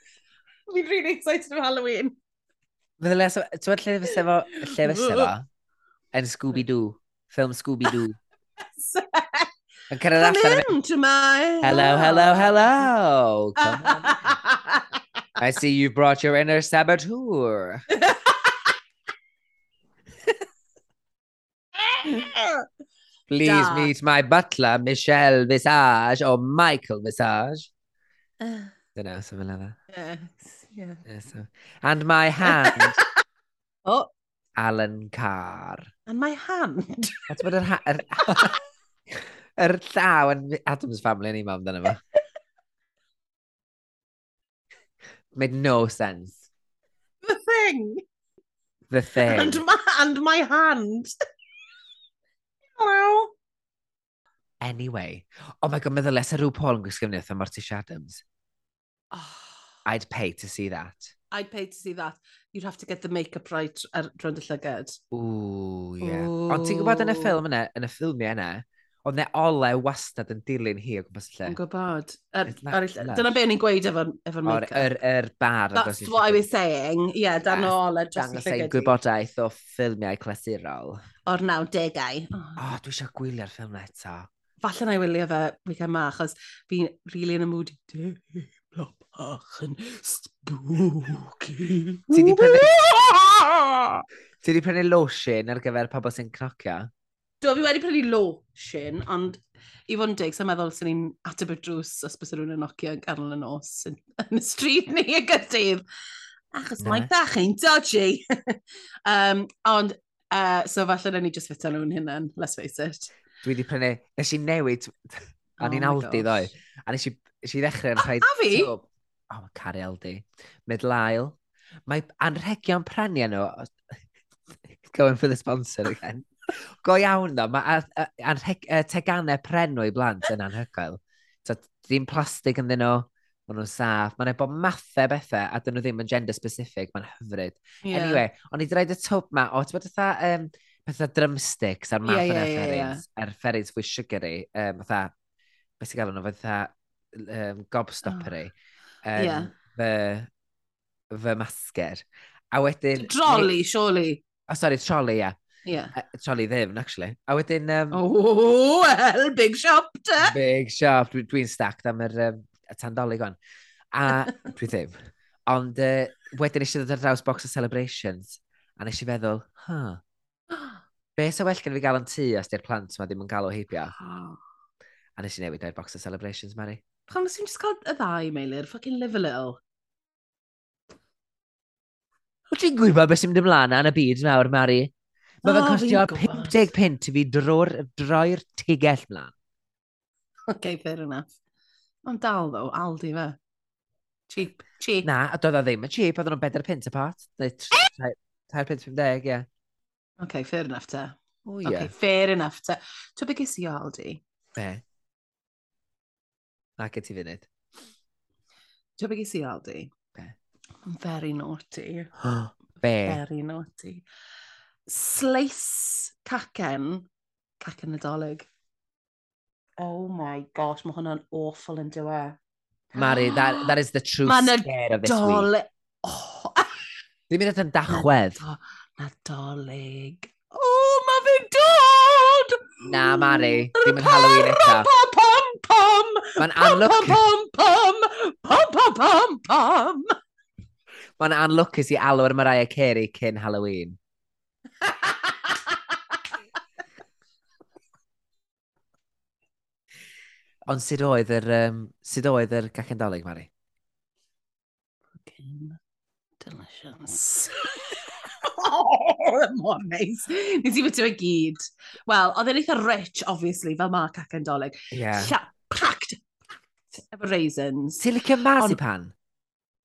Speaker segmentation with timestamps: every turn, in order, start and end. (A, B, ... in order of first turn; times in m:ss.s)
0:00.7-0:02.2 A
0:03.0-0:05.4 B
0:04.1-0:05.3 A
0:06.1-0:08.2 B
0:08.8-0:09.5 A
0:09.9-0:10.7 B
0:10.2-0:12.9 A
0:11.6-0:14.3 B
0:13.6-0:15.0 A
0:15.4-0:17.8 B
0:17.9-0:18.8 A
0:21.8-0:22.6 A
0:23.3-0:27.7 B
0:23.4-0:23.9 A
0:28.4-0:28.7 A
0:29.0-0:29.8 B
0:29.9-0:31.0 A
0:31.1-0:33.0 B
0:32.5-0:33.0 A
0:34.6-0:35.9 B
0:36.1-0:37.4 A
0:37.3-0:38.6 B
0:38.2-0:38.6 A
0:39.1-0:42.0 B
0:45.4-0:46.4 B
0:47.2-0:48.0 A
0:48.9-0:49.6 B
0:49.2-0:51.1 A
0:52.8-0:53.3 A
0:54.6-0:58.2 B
0:59.1-0:59.6 A
0:59.9-1:01.1 B
1:01.3-1:05.0 A
1:05.1-1:11.6 B
1:06.0-1:07.4 A
1:11.5-1:14.9 A
1:12.5-1:13.4 B
1:14.5-1:16.5 B
1:15.8-1:19.0 A
1:17.5-1:21.0 B
1:21.3-1:22.6 A
1:22.6-1:24.3 B
1:24.6-1:34.0 A
1:32.1-1:32.7 B
1:34.4-1:36.9 B
1:37.4-1:45.8 A
1:46.5-1:53.2 A
1:46.8-1:47.1 B
1:53.4-2:03.7 B
1:55.6-1:56.5 A
1:58.0-1:58.7 A
2:04.7-2:06.3 B
2:06.8-2:25.1 B
2:17.8-2:18.2 A
2:22.0-2:23.0 A
2:25.8-2:30.3 B
2:28.0-2:28.3 A
2:29.2-2:29.5 A
2:31.1-2:33.6 B
2:33.0-2:34.2 A
2:34.5-2:35.4 B
2:35.6-2:36.0 A
2:36.0-2:38.0 B
2:37.9-2:40.3 A
2:40.2-2:43.4 B
2:43.9-2:45.0 B
2:45.5-2:50.0 B
2:50.5-2:50.8 A
2:51.2-2:53.9 B
2:53.9-2:54.4 A
2:55.2-2:56.8 B
2:57.1-2:59.6 A
3:02.5-3:04.9 B
3:05.4-3:06.7 A
3:05.4-3:09.3 B
3:10.5-3:11.3 A
3:12.1-3:13.4 A
3:14.3-3:15.1 A
3:15.0-3:19.5 B
3:20.2-3:24.2 A
3:21.4-3:21.9 B
3:24.6-3:24.8 B
3:26.8-3:27.5 B
3:29.0-3:29.9 A
3:30.9-3:32.1 A
3:32.2-3:33.2 B
3:33.0-3:34.1 A
3:34.9-3:37.1 A
3:37.6-3:38.5 A
3:39.8-3:42.4 A
3:42.9-3:46.8 A
3:43.0-3:45.5 B
3:47.3-3:48.4 B
3:47.9-4:00.1 A
3:52.8-3:54.9 B
3:56.4-3:57.2 B
4:01.2-4:04.0 B
4:04.8-4:05.8 A
4:10.7-4:13.5 B
4:15.2-4:15.8 A
4:16.4-4:26.2 A
4:24.9-4:25.4 B
4:26.9-4:28.1 A
4:28.0-4:29.1 B